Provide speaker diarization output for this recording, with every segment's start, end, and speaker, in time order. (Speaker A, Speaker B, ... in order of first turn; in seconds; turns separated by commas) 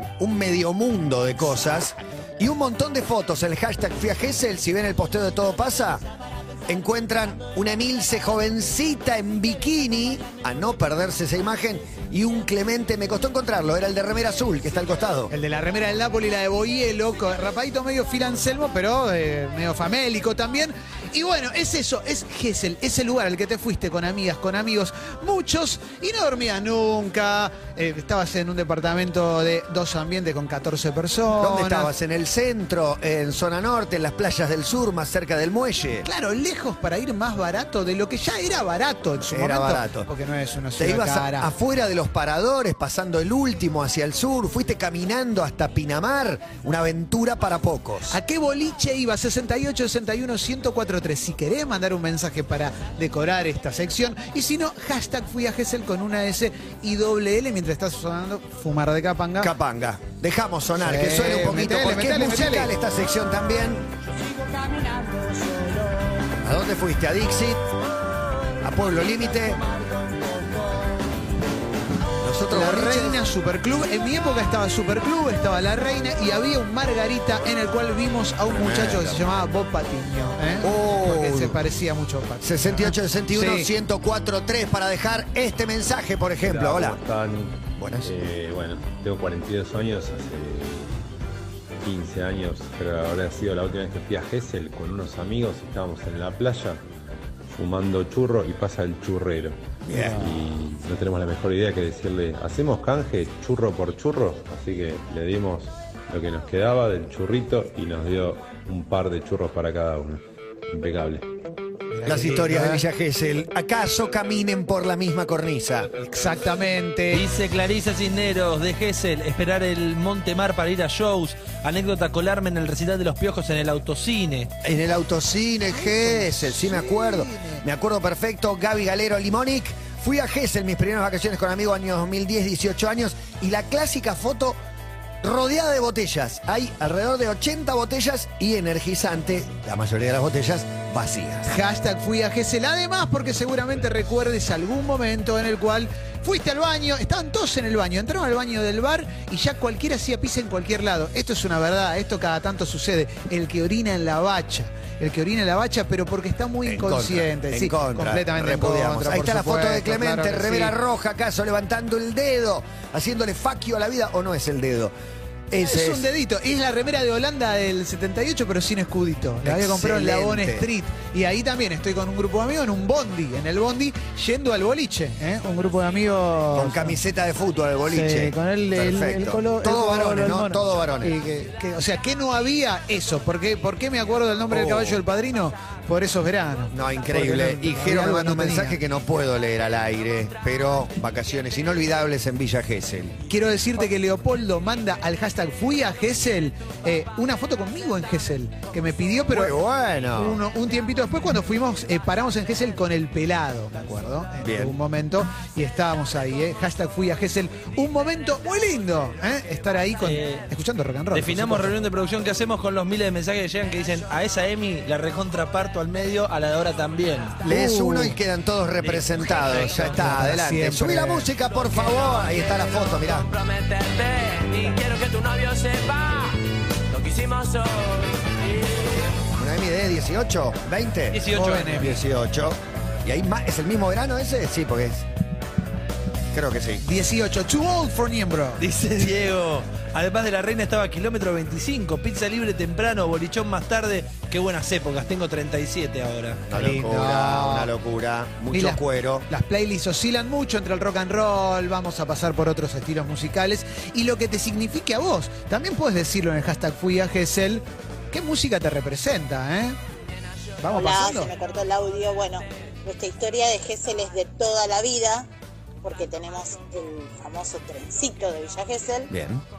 Speaker A: 0.2-6.0, Speaker A: 6.7-15.3, Speaker B: 15.3-31.9, Speaker A: 31.4-36.1, Speaker B: 36.0-41.5, Speaker A: 39.2-40.1, Speaker A: 40.8-48.2, Speaker B: 48.1-59.5, Speaker A: 59.4-63.9, Speaker B: 60.8-62.7, Speaker A: 66.4-67.6, Speaker A: 68.6-69.6, Speaker A: 72.2-73.2, Speaker B: 72.5-83.7, Speaker A: 78.5-79.3, Speaker A: 80.6-81.6, Speaker A: 82.4-87.0, Speaker C: 86.4-90.9, Speaker A: 87.8-88.3, Speaker C: 91.8-96.8, Speaker C: 97.5-111.3, Speaker A: 99.9-100.4, Speaker B: 111.9-112.8, Speaker A: 112.1-115.9, Speaker B: 116.1-117.2, Speaker D: 117.1-124.5, Speaker A: 124.6-134.6, Speaker B: 125.7-127.7, Speaker A: 135.2-141.5, Speaker B: 141.5-160.8, Speaker A: 156.6-164.9, Speaker A: 165.5-166.1, Speaker B: 165.6-177.0, Speaker A: 169.4-170.7, Speaker A: 176.5-181.2, Speaker B: 177.9-188.8, Speaker A: 184.5-185.0, Speaker A: 186.7-193.2, Speaker B: 193.3-199.5, Speaker A: 199.3-200.4, Speaker B: 200.2-211.8, Speaker A: 204.4-204.8, Speaker D: 210.0-210.5, Speaker D: 211.1-217.4, Speaker B: 217.4-218.2, Speaker A: 217.4-223.3, Speaker D: 218.8-220.0, Speaker B: 219.9-221.3, Speaker E: 221.6-226.4, Speaker E: 226.9-228.9, Speaker A: 229.3-235.1, Speaker D: 231.1-231.9, Speaker B: 231.3-232.0, Speaker A: 236.3-236.8, Speaker B: 236.8-238.7, Speaker D: 238.6-246.4, Speaker A: 246.5-249.3, Speaker B: 246.5-247.7, Speaker B: 248.5-259.8, Speaker B: 260.6-261.3, Speaker F: 260.7-265.3, Speaker F: 265.8-269.1, Speaker A: 269.1-269.4